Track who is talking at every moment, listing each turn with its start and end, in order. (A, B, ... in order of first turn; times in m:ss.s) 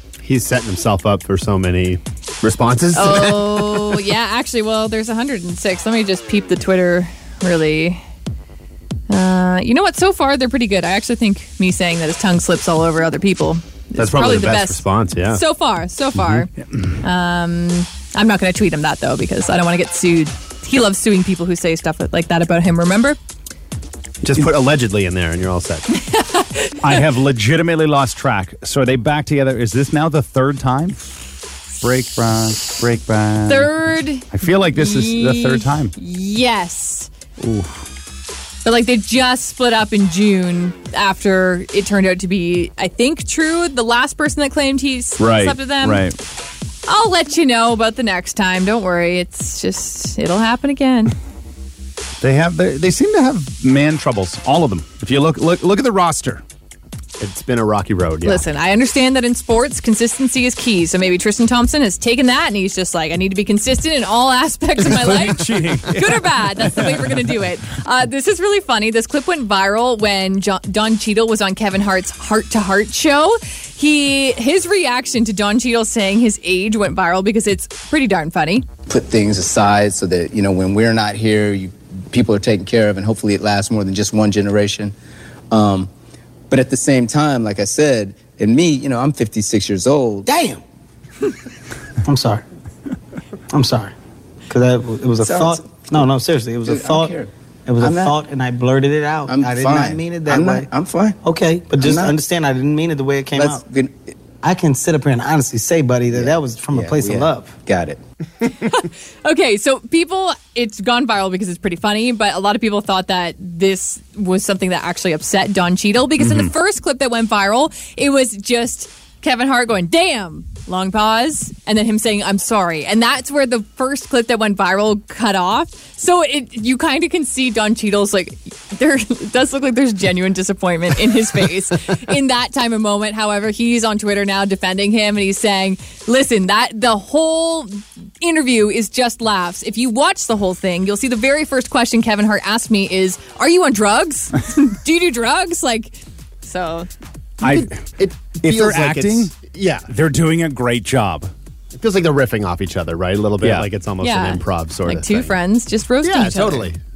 0:00.2-0:04.0 A
0:02.9-0:08.0 B
0:09.1-0:16.5 B
0:14.0-0:15.4 A
0:17.0-0:23.2 B
0:24.2-0:25.9 A
0:25.9-0:27.0 B
0:26.8-0:31.0 C
0:31.8-0:33.7 C
0:33.5-0:37.1 B
0:34.3-0:35.9 C
0:38.6-0:46.1 B
0:45.2-0:46.2 C
0:46.9-0:51.2 B
0:52.2-0:56.4 C
0:57.2-0:58.4 A
0:58.2-1:18.7 B
1:04.8-1:07.4 C
1:18.9-1:24.9 D
1:25.5-1:25.9 D
1:26.5-1:30.3 D
1:30.3-1:30.6 E
1:32.0-1:32.4 E
1:33.5-1:33.9 E
1:34.5-1:40.7 E
1:35.2-1:36.0 D
1:36.7-1:37.3 D
1:37.8-1:38.2 D
1:39.3-1:41.2 D
1:41.2-1:43.6 E
1:41.8-1:42.2 D
1:43.4-1:43.9 D
1:44.4-1:47.6 E
1:46.2-1:48.0 D
1:48.6-2:26.9 B
1:56.2-1:56.5 C
2:27.4-2:31.3 C
2:27.4-2:29.9 A
2:31.7-2:35.4 A
2:33.4-2:33.7 C
2:34.0-2:36.7 B
2:36.0-2:36.8 A